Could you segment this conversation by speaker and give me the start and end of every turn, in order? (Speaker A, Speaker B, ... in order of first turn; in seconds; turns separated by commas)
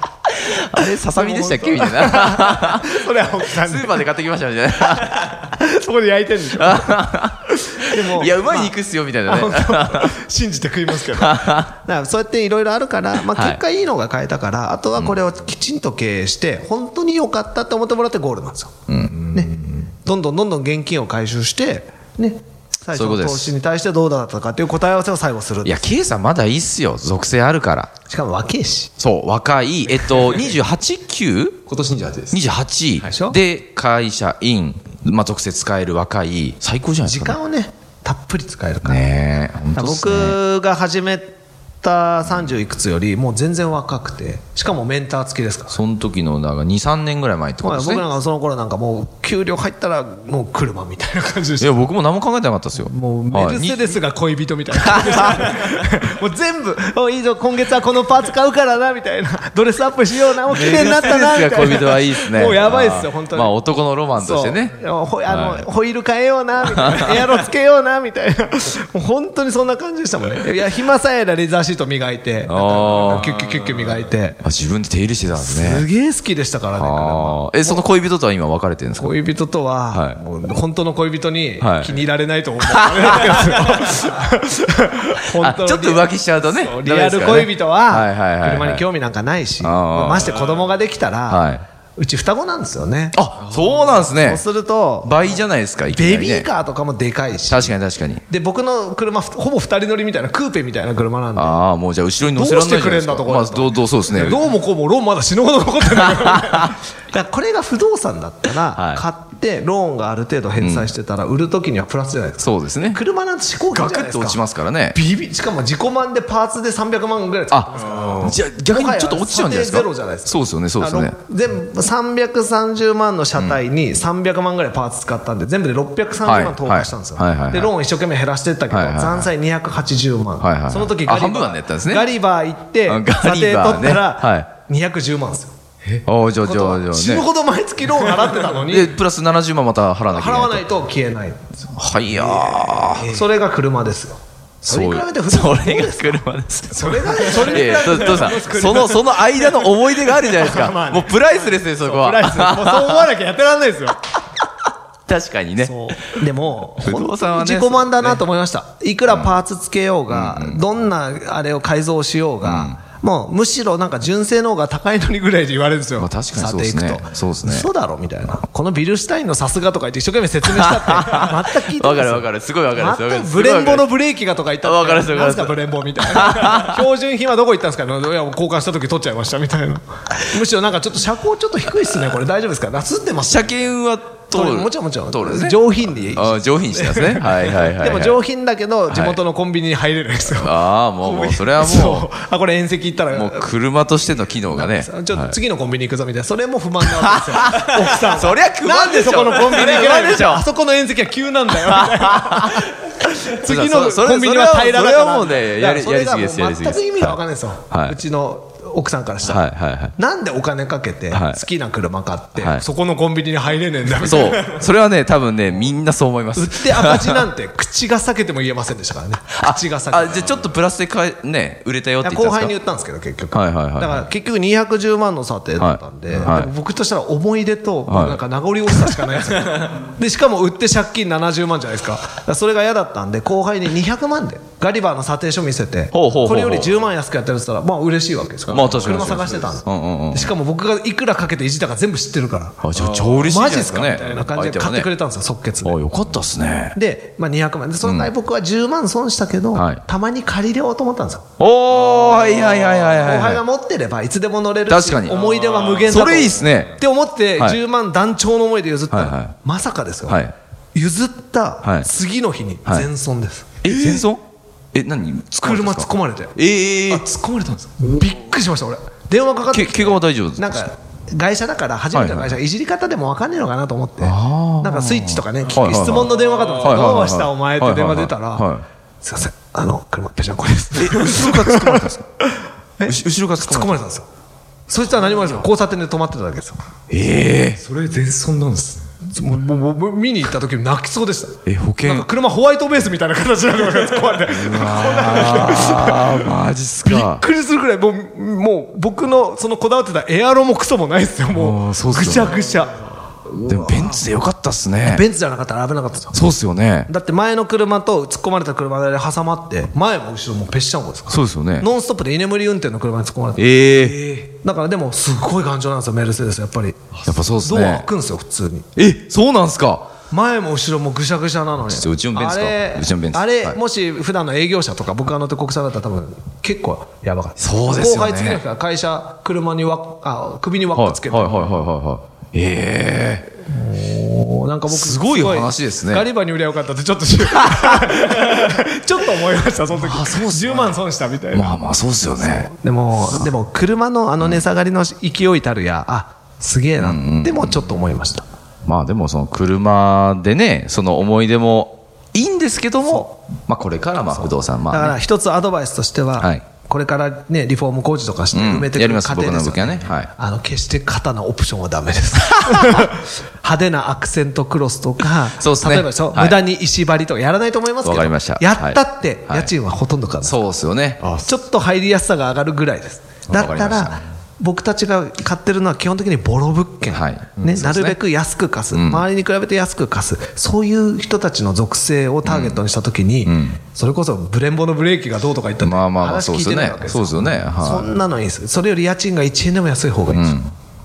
Speaker A: 0.3-5.5, Speaker B: 0.8-4.0, Speaker B: 4.8-7.0, Speaker A: 6.5-10.2, Speaker B: 7.7-8.7, Speaker B: 9.2-18.8, Speaker A: 11.0-11.7, Speaker A: 13.2-13.6, Speaker A: 18.9-19.3, Speaker C: 19.1-19.8, Speaker B: 19.3-25.8, Speaker A: 22.9-23.5, Speaker A: 25.6-27.9, Speaker B: 28.1-28.9, Speaker A: 29.0-31.7, Speaker C: 31.7-32.4, Speaker A: 32.3-37.4, Speaker B: 33.0-33.4, Speaker B: 37.0-39.0, Speaker A: 38.8-40.4, Speaker B: 39.7-45.8, Speaker A: 45.7-48.0, Speaker B: 47.6-51.8, Speaker A: 51.6-54.0, Speaker B: 52.9-63.5, Speaker A: 54.8-55.7, Speaker A: 60.4-65.7, Speaker B: 64.2-74.4, Speaker A: 66.6-67.3, Speaker A: 72.5-73.5, Speaker A: 74.4-75.8, Speaker B: 75.4-77.8, Speaker A: 76.8-79.1, Speaker B: 79.0-93.2, Speaker A: 79.9-80.2, Speaker A: 81.6-82.0, Speaker A: 82.6-84.0, Speaker A: 85.3-88.8, Speaker A: 89.6-90.5, Speaker A: 91.3-91.6, Speaker A: 93.1-94.4, Speaker B: 94.1-97.7, Speaker A: 95.0-96.5, Speaker A: 97.5-98.2, Speaker B: 98.3-101.6, Speaker A: 101.3-104.4, Speaker B: 102.3-135.5, Speaker A: 106.2-106.7, Speaker A: 108.7-109.0, Speaker A: 110.6-110.9, Speaker A: 112.4-113.0, Speaker A: 113.7-115.0, Speaker A: 117.5-121.2, Speaker C: 117.8-118.2, Speaker A: 126.2-127.7, Speaker A: 128.7-129.3, Speaker A: 130.4-132.1, Speaker A: 132.8-134.5, Speaker A: 136.0-137.3, Speaker B: 136.4-138.9, Speaker A: 138.4-140.7, Speaker B: 140.1-141.5, Speaker A: 141.7-143.2, Speaker B: 142.1-146.2, Speaker A: 144.6-153.1, Speaker B: 146.7-154.1, Speaker A: 155.1-155.9, Speaker B: 155.6-183.5, Speaker A: 156.7-158.2, Speaker A: 160.1-160.6, Speaker A: 162.4-162.8, Speaker A: 166.0-167.7, Speaker A: 170.4-173.9, Speaker A: 174.6-176.8, Speaker A: 183.2-188.2, Speaker B: 184.3-193.5, Speaker A: 188.9-189.2, Speaker A: 190.3-192.1, Speaker A: 193.1-195.3, Speaker B: 194.5-209.4, Speaker A: 196.8-200.4, Speaker A: 201.6-208.0, Speaker A: 209.2-209.9, Speaker B: 209.9-214.6, Speaker A: 211.1-211.4, Speaker A: 212.4-212.6, Speaker A: 214.0-217.3, Speaker B: 216.3-220.3, Speaker A: 219.4-222.6, Speaker B: 222.0-242.6, Speaker A: 223.3-224.1, Speaker A: 225.6-226.5, Speaker A: 227.9-229.2, Speaker A: 235.9-236.7, Speaker C: 238.5-239.5, Speaker A: 238.5-240.3, Speaker A: 242.6-244.9, Speaker C: 242.7-244.0, Speaker B: 243.2-245.8, Speaker A: 245.6-246.8, Speaker B: 246.7-251.2, Speaker A: 247.8-248.1, Speaker A: 249.5-249.8, Speaker A: 251.4-253.4, Speaker C: 251.8-252.9, Speaker B: 252.9-260.2, Speaker A: 254.7-255.3, Speaker C: 255.1-256.6, Speaker A: 255.8-256.8, Speaker A: 258.9-259.3, Speaker A: 260.1-260.3, Speaker B: 260.7-264.0, Speaker A: 261.6-261.9, Speaker A: 263.6-267.1, Speaker B: 265.4-266.4, Speaker B: 266.9-278.5, Speaker A: 269.5-270.6, Speaker A: 271.9-272.4, Speaker A: 274.0-278.6, Speaker B: 279.0-284.1, Speaker A: 280.7-282.1, Speaker A: 282.8-283.8, Speaker B: 284.7-286.6, Speaker A: 286.9-287.6, Speaker C: 287.6-288.9, Speaker B: 289.0-296.3, Speaker A: 291.4-292.1, Speaker A: 294.2-297.2, Speaker B: 296.8-304.0, Speaker A: 301.3-302.4, Speaker A: 303.4-305.0, Speaker B: 304.8-306.1, Speaker A: 306.1-306.9, Speaker B: 306.9-318.7, Speaker A: 311.1-311.7, Speaker A: 313.4-314.2, Speaker A: 317.1-317.9, Speaker A: 318.8-319.9, Speaker B: 320.1-331.5, Speaker A: 321.7-323.6, Speaker A: 327.4-328.4, Speaker A: 330.7-333.3, Speaker B: 333.4-341.5, Speaker A: 334.7-336.1, Speaker A: 337.2-338.5, Speaker A: 339.7-340.8, Speaker A: 341.3-342.5, Speaker B: 342.2-348.3, Speaker A: 346.8-347.6, Speaker A: 348.6-355.0, Speaker B: 354.7-370.4, Speaker A: 356.2-356.4, Speaker A: 358.3-360.1, Speaker A: 362.3-362.9, Speaker A: 365.3-366.4, Speaker A: 367.8-369.5, Speaker A: 370.2-371.1, Speaker C: 371.0-371.3, Speaker B: 371.2-390.4, Speaker A: 373.3-374.0, Speaker A: 376.9-378.0, Speaker A: 378.7-379.1, Speaker A: 382.2-382.6, Speaker A: 383.2-383.6, Speaker A: 385.6-387.9, Speaker A: 390.1-390.5